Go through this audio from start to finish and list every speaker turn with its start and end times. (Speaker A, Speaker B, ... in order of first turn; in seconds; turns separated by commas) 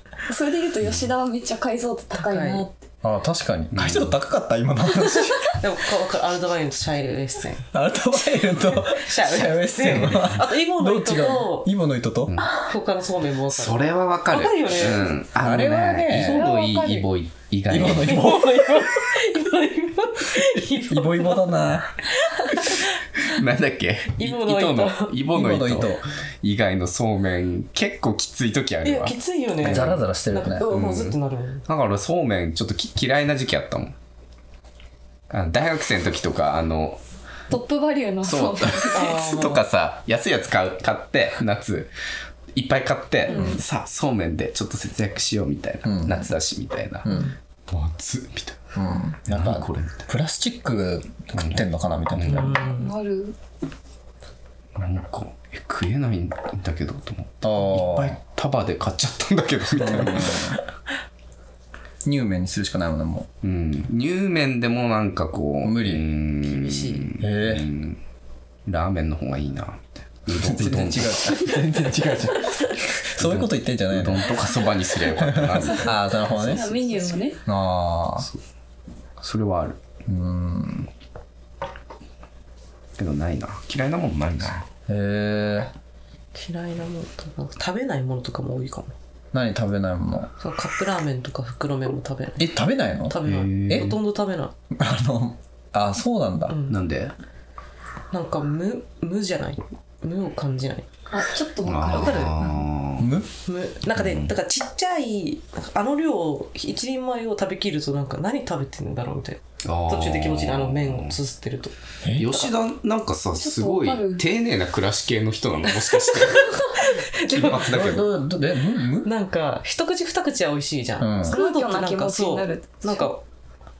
Speaker A: 0.3-2.8, Speaker B: 0.8-1.1, Speaker C: 2.1-2.6, Speaker D: 3.0-5.5, Speaker B: 3.7-4.2, Speaker C: 5.6-7.7, Speaker D: 7.7-12.4, Speaker C: 8.7-11.7, Speaker B: 9.8-10.4, Speaker B: 12.3-12.7, Speaker C: 12.5-15.2, Speaker B: 13.5-18.3, Speaker D: 15.4-16.4, Speaker A: 16.1-17.1, Speaker D: 17.7-18.9, Speaker C: 17.9-21.6, Speaker D: 20.8-22.0, Speaker C: 22.2-23.0, Speaker B: 23.2-30.0, Speaker C: 24.1-25.1, Speaker D: 25.3-26.1, Speaker C: 28.8-31.6, Speaker D: 29.6-30.7, Speaker A: 30.6-31.0, Speaker B: 30.7-31.1, Speaker B: 31.7-33.9, Speaker B: 35.3-37.0, Speaker A: 37.5-39.1, Speaker B: 38.2-41.9, Speaker C: 38.9-39.6, Speaker B: 42.5-48.6, Speaker A: 43.3-43.6, Speaker D: 43.3-43.6, Speaker D: 45.8-46.3, Speaker D: 47.0-47.3, Speaker C: 47.1-47.3, Speaker D: 48.7-52.7, Speaker B: 49.3-50.1, Speaker B: 51.3-51.6, Speaker B: 52.2-52.5, Speaker C: 52.2-52.9, Speaker A: 52.6-53.4, Speaker B: 54.8-60.6, Speaker D: 57.4-58.2, Speaker D: 59.7-60.6, Speaker D: 62.0-63.3, Speaker B: 63.4-68.0, Speaker D: 65.6-66.0, Speaker C: 66.5-67.1, Speaker D: 67.2-67.7, Speaker B: 68.7-71.2, Speaker D: 70.3-74.4, Speaker B: 73.2-76.0, Speaker D: 75.1-78.3, Speaker A: 75.6-77.4, Speaker B: 79.2-79.8, Speaker D: 80.0-80.9, Speaker B: 83.0-84.6, Speaker D: 84.9-85.7, Speaker C: 86.3-88.9, Speaker D: 89.3-90.3, Speaker C: 90.4-92.5, Speaker D: 92.4-93.9, Speaker C: 93.1-94.5, Speaker B: 93.2-94.0, Speaker D: 94.7-96.5, Speaker C: 96.5-96.8, Speaker B: 96.7-97.1, Speaker C: 98.1-100.9, Speaker A: 101.1-102.7, Speaker B: 101.6-103.1, Speaker C: 101.9-102.5, Speaker D: 103.0-103.3, Speaker C: 103.5-111.7, Speaker B: 104.0-104.3, Speaker B: 109.6-111.2, Speaker D: 112.0-112.4, Speaker B: 112.2-118.1, Speaker A: 113.4-114.2, Speaker C: 116.2-118.0, Speaker D: 117.3-119.1, Speaker C: 119.0-123.2, Speaker D: 121.0-121.4, Speaker A: 121.2-123.1